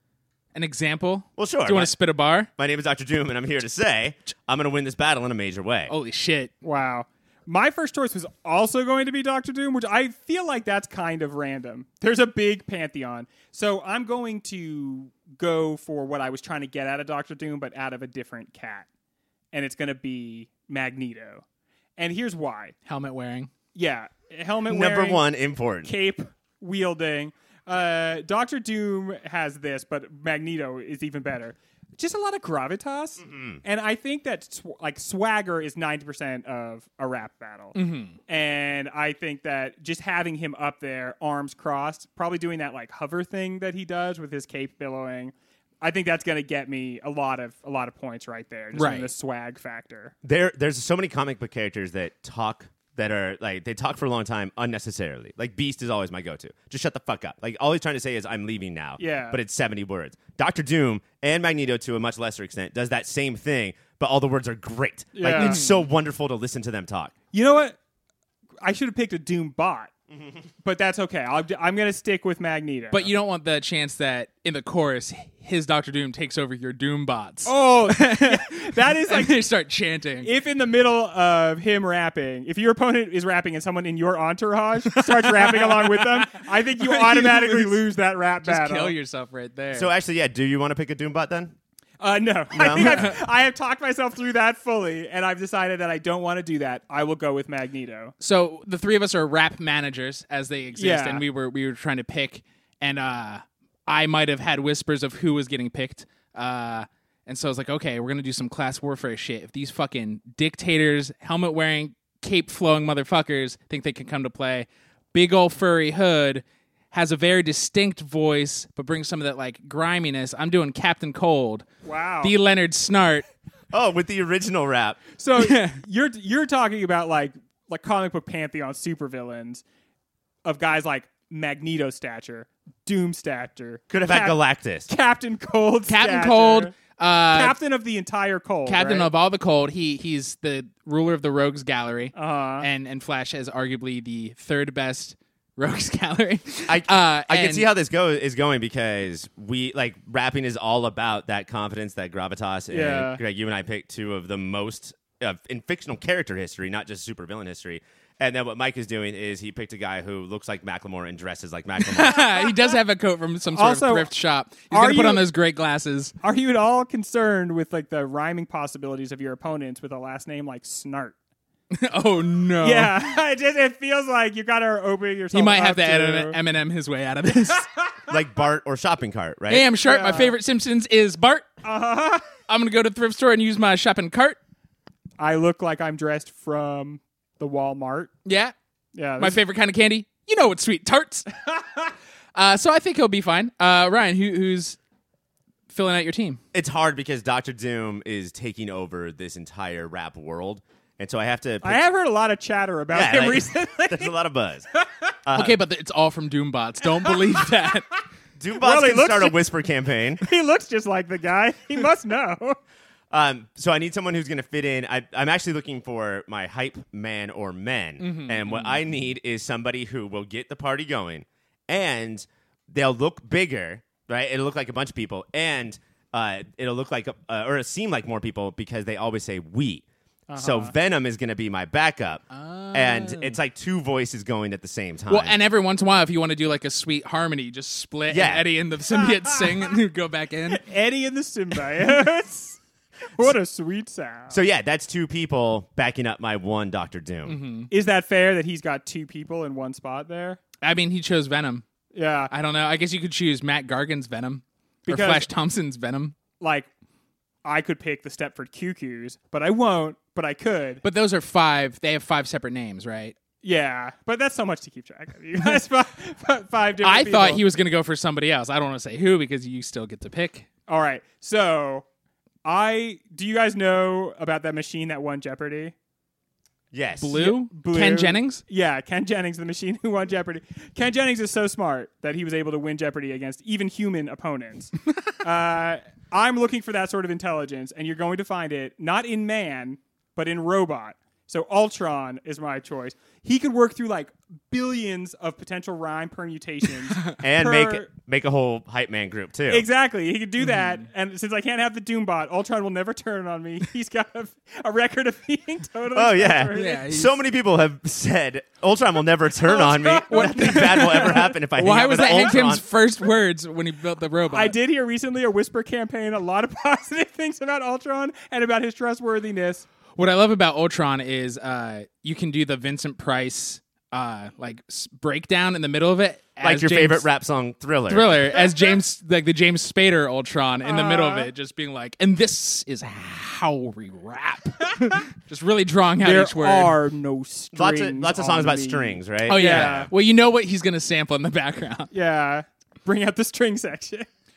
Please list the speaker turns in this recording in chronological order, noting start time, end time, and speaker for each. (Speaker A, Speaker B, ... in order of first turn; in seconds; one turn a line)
Speaker A: 0.5-2.5
Speaker B: 1.4-1.9
Speaker B: 2.6-5.9
Speaker A: 5.9-6.5
Speaker C: 6.6-18.9
Speaker C: 19.5-21.4
Speaker C: 22.0-22.7
Speaker A: 22.9-23.5
Speaker C: 23.8-25.2
Speaker B: 24.7-25.9
Speaker C: 25.8-37.8
Speaker B: 33.2-33.6
Speaker A: 37.8-38.2
Speaker C: 38.3-50.1
Speaker A: 48.7-49.1
Speaker B: 50.2-67.1
Speaker C: 59.0-59.4
Speaker C: 65.2-65.6
Speaker A: 65.3-65.8
Speaker C: 67.3-67.8
Speaker C: 68.6-69.9
Speaker C: 70.6-73.1
Speaker A: 72.9-80.3
Speaker C: 77.5-79.4
Speaker C: 80.2-88.9
Speaker A: 84.9-87.8
Speaker A: 88.4-89.9
Speaker B: 89.7-91.5
Speaker C: 92.0-98.1
Speaker B: 92.5-93.1
Speaker A: 92.7-93.2
Speaker A: 98.2-121.7
Speaker C: 100.8-101.2
Speaker C: 121.8-122.3
Speaker A: 122.2-123.2
Speaker B: 123.7-125.0
Speaker C: 125.2-129.6
Speaker A: 125.4-125.8
Speaker C: 130.4-136.8
Speaker B: 133.9-134.9
Speaker A: 135.9-137.6
Speaker C: 137.3-139.1
Speaker A: 138.7-147.7
Speaker C: 142.2-142.7
Speaker B: 146.7-162.3
Speaker C: 152.7-153.2
Speaker A: 161.8-166.1
Speaker C: 163.6-164.1
Speaker C: 164.7-165.2
Speaker C: 166.2-171.2
Speaker A: 171.7-173.0
Speaker C: 172.6-176.4
Speaker A: 175.3-177.7
Speaker B: 178.1-179.7
Speaker A: 179.5-181.5
Speaker C: 179.8-180.4
Speaker C: 181.6-182.3
Speaker A: 182.5-184.4
Speaker C: 185.2-188.1
Speaker A: 188.2-188.5
Speaker C: 188.9-189.4
Speaker A: 189.2-191.3
Speaker A: 192.3-194.8
Speaker A: 195.7-196.4
Speaker B: 196.5-201.8
Speaker C: 201.6-204.2
Speaker B: 202.9-204.7
Speaker B: 205.2-205.6
Speaker A: 205.3-207.9
Speaker C: 207.1-207.4
Speaker B: 208.4-210.2
Speaker C: 208.6-209.4
Speaker C: 210.2-212.6
Speaker B: 213.1-229.8
Speaker A: 218.0-218.8
Speaker C: 230.3-230.7
Speaker B: 230.4-235.4
Speaker A: 232.3-233.4
Speaker A: 235.1-240.6
Speaker B: 238.1-238.5
Speaker C: 239.3-239.5
Speaker C: 240.5-242.6
Speaker C: 243.2-244.4
Speaker B: 244.3-247.4
Speaker A: 247.2-247.7
Speaker C: 247.7-250.4
Speaker A: 250.6-251.7
Speaker C: 251.9-252.3
Speaker A: 252.3-256.2
Speaker C: 254.9-255.3
Speaker C: 256.4-256.7
Speaker C: 257.4-260.8
Speaker A: 260.8-263.2
Speaker C: 263.4-267.4
Speaker A: 266.8-270.5
Speaker C: 270.7-271.9
Speaker C: 272.4-275.7
Speaker B: 276.7-277.2
Speaker A: 277.0-278.4
Speaker C: 277.1-297.9
Speaker B: 297.2-299.7
Speaker C: 299.5-306.9
Speaker A: 300.4-300.8
Speaker B: 305.9-312.6
Speaker A: 306.5-307.1
Speaker C: 309.4-311.3
Speaker A: 310.1-314.5
Speaker C: 314.3-319.7
Speaker A: 320.0-327.1
Speaker B: 326.4-328.2
Speaker A: 327.9-336.8
Speaker C: 330.6-331.3
Speaker C: 336.0-339.9
Speaker B: 337.5-339.9
Speaker A: 339.3-341.9
Speaker C: 341.9-344.1